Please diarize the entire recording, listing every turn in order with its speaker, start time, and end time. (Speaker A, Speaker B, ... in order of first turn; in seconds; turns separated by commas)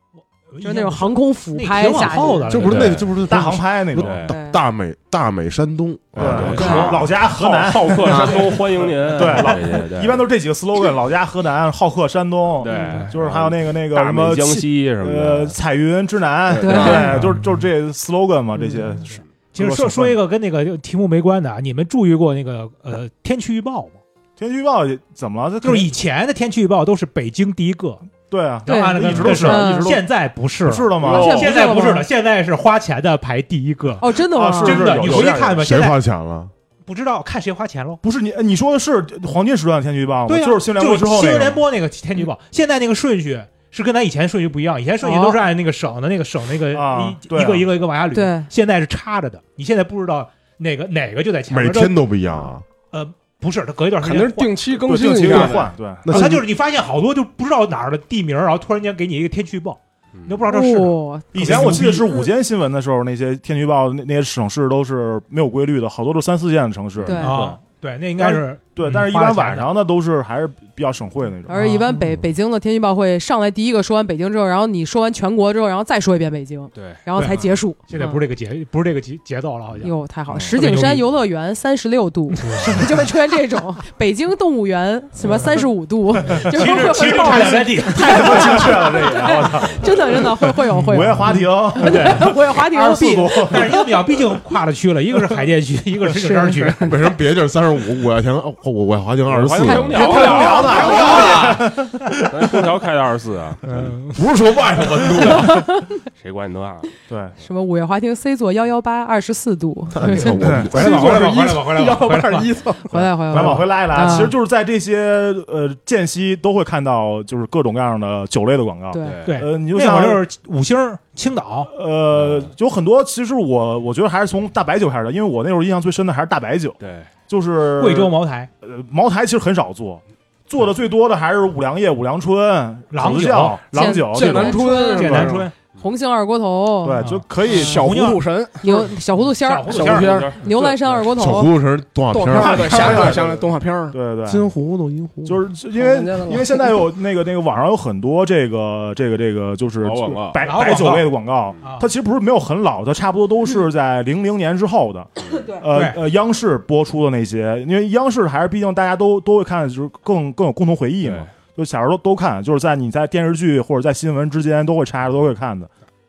Speaker A: 0.5-3.0, Speaker B: 0.6-2.5, Speaker C: 2.5-6.9, Speaker D: 2.6-3.1, Speaker E: 3.2-4.3, Speaker D: 4.0-4.3, Speaker B: 4.3-4.6, Speaker D: 6.1-10.2, Speaker E: 6.2-20.2, Speaker B: 6.6-7.0, Speaker F: 8.1-8.4, Speaker D: 12.6-15.6, Speaker A: 12.8-13.1, Speaker B: 16.6-17.1, Speaker A: 17.0-17.6, Speaker A: 19.5-24.0, Speaker E: 24.4-25.9, Speaker A: 25.6-28.0, Speaker E: 28.3-30.1, Speaker A: 28.6-36.0, Speaker B: 28.7-29.9, Speaker E: 30.6-31.5, Speaker B: 31.0-32.1, Speaker B: 34.0-35.1, Speaker E: 34.3-35.7, Speaker C: 35.1-36.5, Speaker A: 36.9-38.0, Speaker E: 38.0-41.6, Speaker A: 40.3-52.0, Speaker B: 45.0-45.4, Speaker E: 46.7-47.7, Speaker B: 48.1-48.5, Speaker C: 51.5-52.7, Speaker A: 52.9-54.6, Speaker F: 54.0-55.7, Speaker E: 54.8-56.3, Speaker C: 55.3-56.5, Speaker A: 56.1-62.0, Speaker D: 60.1-60.4, Speaker B: 60.5-62.1, Speaker E: 61.3-67.6, Speaker B: 67.0-67.4, Speaker A: 67.2-69.7, Speaker E: 68.2-71.6, Speaker B: 71.5-78.2, Speaker A: 71.5-72.1, Speaker D: 76.8-77.0, Speaker A: 77.2-79.9, Speaker B: 79.8-93.5, Speaker A: 80.5-81.1, Speaker A: 82.4-83.1, Speaker A: 86.3-88.8, Speaker E: 87.8-92.3, Speaker A: 90.7-96.9, Speaker E: 92.9-93.9, Speaker C: 96.8-100.2, Speaker D: 99.2-101.6, Speaker B: 99.7-101.3, Speaker E: 99.9-102.6, Speaker D: 102.2-103.7, Speaker A: 103.7-104.2, Speaker C: 103.7-105.6, Speaker B: 105.3-105.9, Speaker D: 106.1-106.9, Speaker E: 107.1-107.4, Speaker B: 107.4-110.6, Speaker C: 109.9-111.2, Speaker E: 110.4-110.8, Speaker A: 110.7-112.5, Speaker F: 110.7-113.0, Speaker B: 112.9-114.3, Speaker E: 113.3-120.2, Speaker A: 113.3-113.6, Speaker B: 118.9-119.2, Speaker D: 119.0-119.3, Speaker A: 119.3-121.7, Speaker E: 121.7-135.3, Speaker D: 122.1-122.5, Speaker D: 126.8-127.1, Speaker A: 127.8-128.5, Speaker A: 132.9-133.6, Speaker B: 133.7-137.0, Speaker F: 134.1-135.5, Speaker A: 134.8-135.5, Speaker E: 136.8-137.8, Speaker A: 137.0-138.2, Speaker F: 137.4-138.9, Speaker B: 138.6-141.5, Speaker A: 139.2-140.2, Speaker F: 139.7-140.4, Speaker D: 140.0-141.0, Speaker C: 141.1-143.3, Speaker F: 142.1-144.0, Speaker E: 142.4-143.3, Speaker E: 143.9-144.5, Speaker C: 144.3-145.4, Speaker E: 145.2-165.7, Speaker F: 145.7-146.7, Speaker D: 149.8-150.4, Speaker A: 150.4-151.9, Speaker A: 155.7-156.0, Speaker D: 161.0-161.3